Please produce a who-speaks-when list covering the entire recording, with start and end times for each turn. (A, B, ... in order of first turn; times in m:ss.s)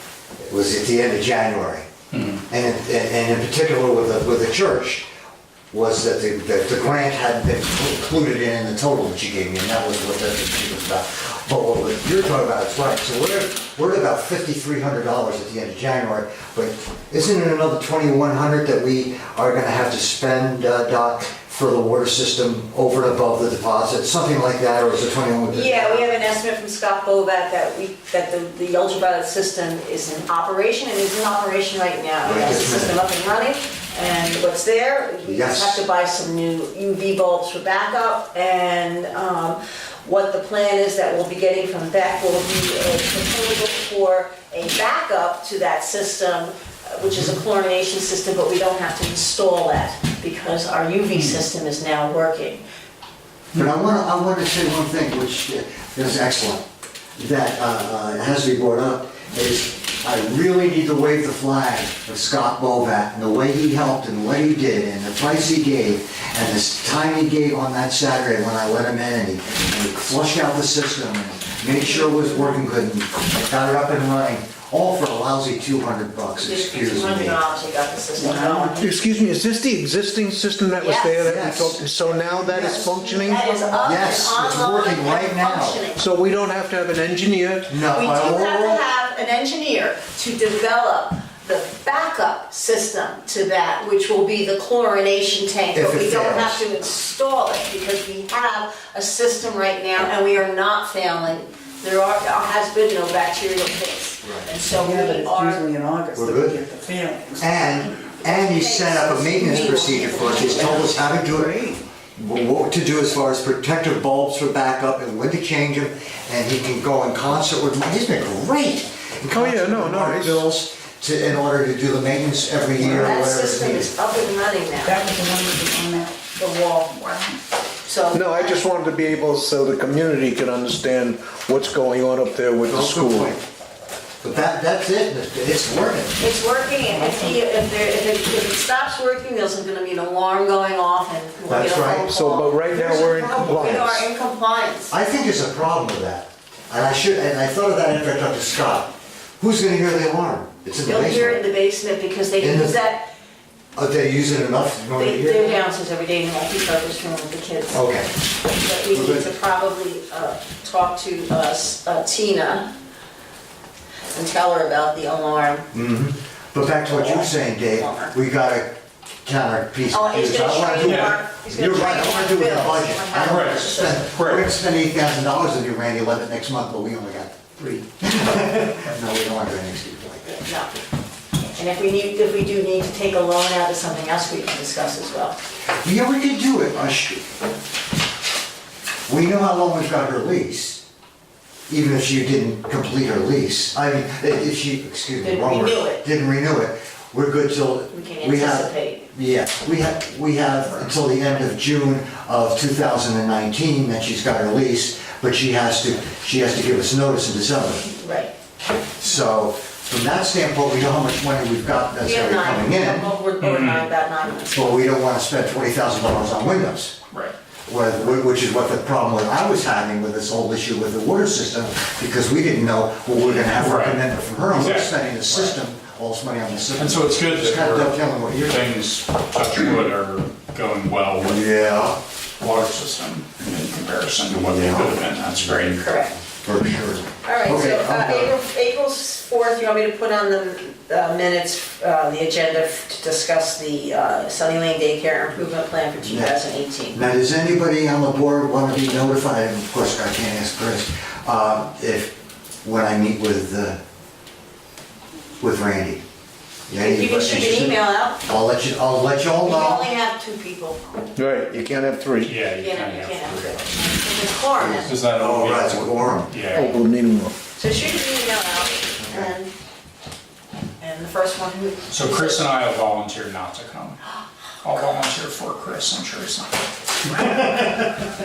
0:00.4-0:01.9 A
0:02.1-0:02.4 B
0:02.5-0:05.1 A
0:05.7-0:26.2 A
0:25.5-0:52.6 C
0:32.2-0:33.0 A
0:35.2-0:35.8 A
0:53.6-0:56.6 A
0:57.2-1:17.4 A
1:12.0-1:12.5 C
1:16.4-1:18.8 C
1:18.2-1:18.9 D
1:18.8-1:23.5 E
1:20.8-1:21.2 C
1:21.2-1:21.8 A
1:22.1-1:26.1 C
1:23.8-1:25.8 A
1:26.0-1:27.7 E
1:27.7-1:28.8 A
1:27.9-1:45.6 C
1:35.7-1:36.6 A
1:44.2-1:44.5 A
1:44.7-1:48.1 D
1:46.2-1:46.6 A
1:47.4-2:03.9 A
1:48.2-1:51.0 C
1:49.3-1:51.8 D
1:59.3-2:00.5 E
2:02.8-2:03.0 D
2:02.9-2:05.0 C
2:04.8-2:06.2 D
2:06.4-2:07.1 C
2:06.9-2:07.4 D
2:07.8-2:08.6 C
2:08.1-2:13.3 E
2:12.7-2:13.4 A
2:14.2-2:16.2 A
2:16.2-2:24.9 C
2:17.0-2:17.3 D
2:21.5-2:22.1 A
2:22.1-2:24.1 E
2:24.9-2:31.4 A
2:30.8-2:33.1 C
2:32.4-2:32.8 A
2:33.8-2:35.6 A
2:35.0-2:37.8 C
2:37.7-2:38.1 A
2:38.5-2:42.7 C
2:38.9-2:39.3 A
2:44.1-2:45.7 C
2:45.7-2:48.7 A
2:46.9-2:48.1 C
2:49.2-3:00.4 A
2:49.9-2:54.1 C
2:50.8-2:51.2 B
2:53.3-2:54.5 B
3:00.2-3:00.7 C
3:01.6-3:05.4 C
3:05.8-3:07.2 A
3:09.1-3:10.8 A
3:11.7-3:27.9 A
3:15.2-3:16.0 C
3:17.9-3:19.1 C
3:27.9-3:28.3 C
3:29.0-3:33.1 A
3:32.0-3:34.9 C
3:33.4-3:33.9 B
3:34.5-3:36.9 A
3:37.7-3:48.6 A
3:43.6-3:45.6 B
3:46.8-3:51.6 B
3:51.2-3:52.0 A
3:52.4-3:56.0 B
3:54.3-3:58.4 A
3:55.8-3:56.2 C
3:57.2-4:07.0 C
4:06.0-4:06.4 A
4:06.9-4:13.8 A
4:15.4-4:16.0 A
4:16.7-4:19.9 A
4:16.8-4:18.2 C
4:19.4-4:20.8 C
4:21.2-4:22.4 E
4:22.2-4:23.8 B
4:22.6-4:24.9 C
4:24.6-4:26.4 A
4:24.8-4:26.8 B
4:26.5-4:27.4 E
4:27.6-4:29.5 C
4:29.0-4:29.3 A
4:30.8-4:32.5 C
4:31.9-4:34.0 B
4:34.6-4:36.5 B
4:37.1-4:38.1 A